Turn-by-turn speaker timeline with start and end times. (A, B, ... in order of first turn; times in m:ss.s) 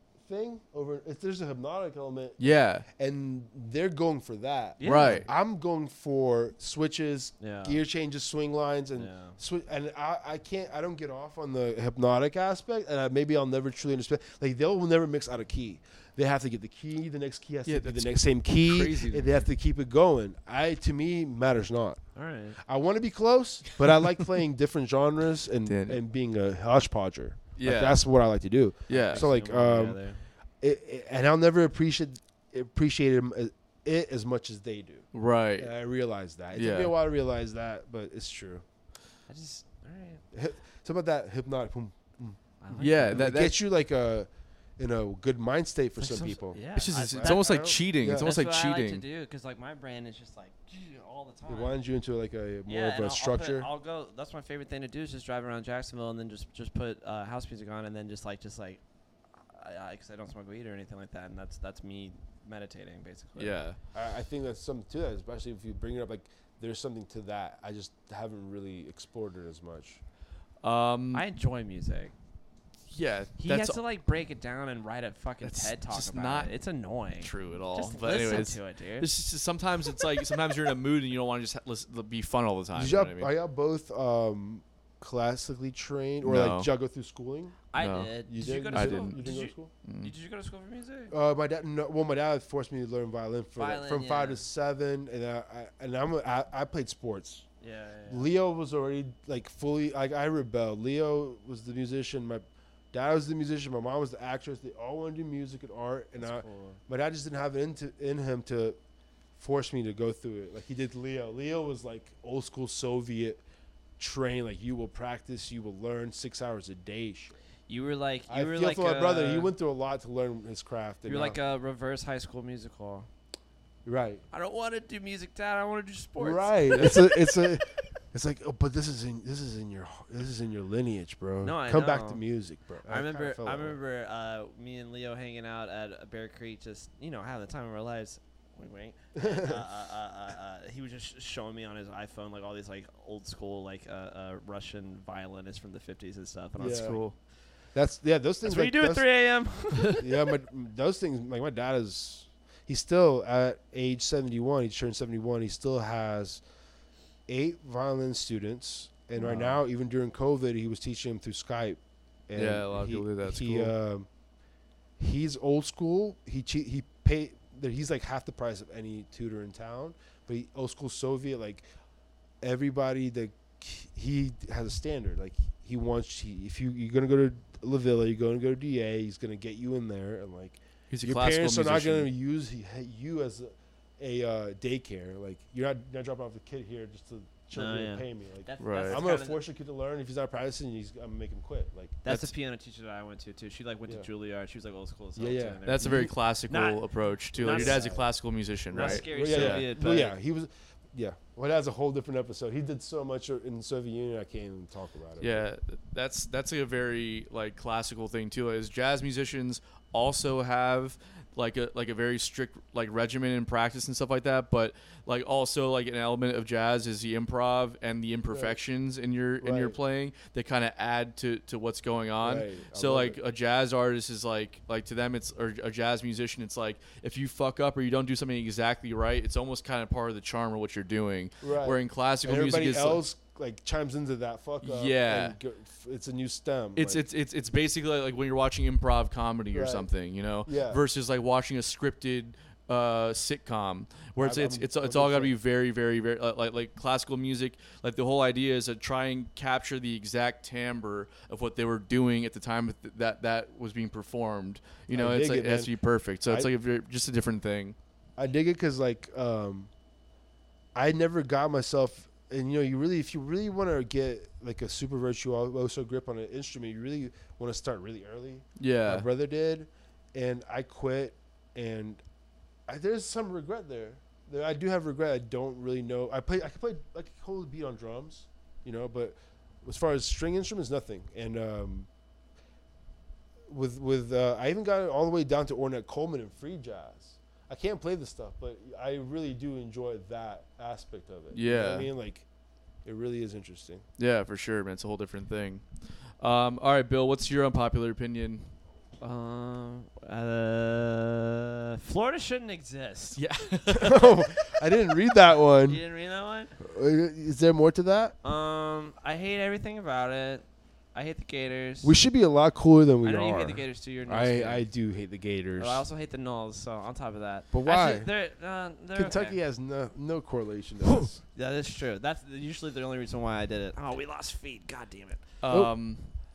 0:00.2-0:22.0 A
0:02.4-0:02.8 B
0:04.8-0:05.2 C
0:04.8-0:05.3 B
0:07.4-0:07.8 C
0:09.0-0:09.4 C
0:17.6-0:19.4 B
0:22.1-0:22.6 C
0:22.6-0:30.0 A
0:25.6-0:26.0 B
0:27.6-0:28.0 B
0:28.9-0:29.3 B
0:29.0-0:30.2 C
0:30.6-0:38.6 A
0:35.1-0:35.7 B
0:36.5-0:36.9 B
0:39.3-0:40.2 C
0:40.3-0:47.4 A
0:42.6-0:43.3 C
0:42.8-0:43.6 B
0:46.0-0:51.7 C
0:46.7-0:49.0 B
0:48.0-0:48.3 A
0:51.5-0:53.7 A
0:52.7-0:58.8 C
0:59.5-1:03.6 C
1:03.4-1:03.8 B
1:03.9-1:10.0 A
1:10.6-1:11.2 B
1:11.1-1:12.1 C
1:12.9-1:13.8 B
1:13.4-1:19.1 C
1:15.4-1:16.5 B
1:17.2-1:23.3 B
1:22.7-1:27.6 A
1:26.2-1:26.7 B
1:27.7-1:31.1 C
1:27.8-1:28.1 B
1:28.3-1:29.7 A
1:28.7-1:29.2 B
1:29.8-1:30.1 B
1:31.1-1:37.4 A
1:33.6-1:34.4 C
1:37.6-1:38.3 C
1:38.1-1:48.8 A
1:46.2-1:46.8 C
1:49.4-1:53.4 A
1:54.0-1:57.4 A
1:57.7-1:59.5 C
1:58.3-2:01.4 A
2:01.0-2:03.1 C
2:03.8-2:04.2 A
2:04.3-2:07.1 C
2:06.2-2:13.8 A
2:11.4-2:12.2 C
2:12.8-2:27.0 C
2:19.2-2:19.6 A
2:26.6-2:27.0 A
2:26.6-2:27.1 B
2:27.7-2:29.0 A
2:28.4-2:30.3 C
2:29.9-2:36.4 A
2:37.3-2:44.1 A
2:42.3-2:43.7 B
2:45.0-2:51.6 A
2:52.4-3:12.0 A
3:00.9-3:02.1 B
3:07.5-3:09.4 C
3:08.6-3:09.0 B
3:12.0-3:18.0 C
3:15.2-3:16.1 A
3:15.6-3:19.7 B
3:17.4-3:18.0 A
3:18.7-3:20.1 C
3:18.7-3:25.5 A
3:25.2-3:53.0 B
3:38.3-3:38.6 A
3:39.4-3:39.8 A
3:42.2-3:43.2 A
3:51.4-3:57.0 A
3:54.6-3:55.4 B
3:56.8-4:17.8 B
3:59.5-3:59.9 A
4:00.4-4:00.8 A
4:04.2-4:05.3 A
4:14.9-4:15.7 A
4:16.2-4:16.5 A
4:18.2-4:19.7 A
4:20.7-4:32.0 A
4:28.6-4:29.0 B
4:32.7-4:41.9 A
4:43.5-4:52.2 A
4:51.3-4:51.9 B
4:52.8-4:53.8 A
4:54.0-4:55.6 B
4:56.2-4:58.5 B
4:59.0-5:03.2 C
5:03.2-5:04.1 B
5:03.7-5:05.8 A
5:05.6-5:06.5 C
5:06.6-5:08.1 A
5:08.2-5:12.0 C
5:11.8-5:15.8 A
5:13.0-5:14.6 C
5:15.6-5:19.4 C
5:17.5-5:18.1 A
5:18.9-5:21.2 A
5:20.8-5:25.2 C
5:25.4-5:26.1 B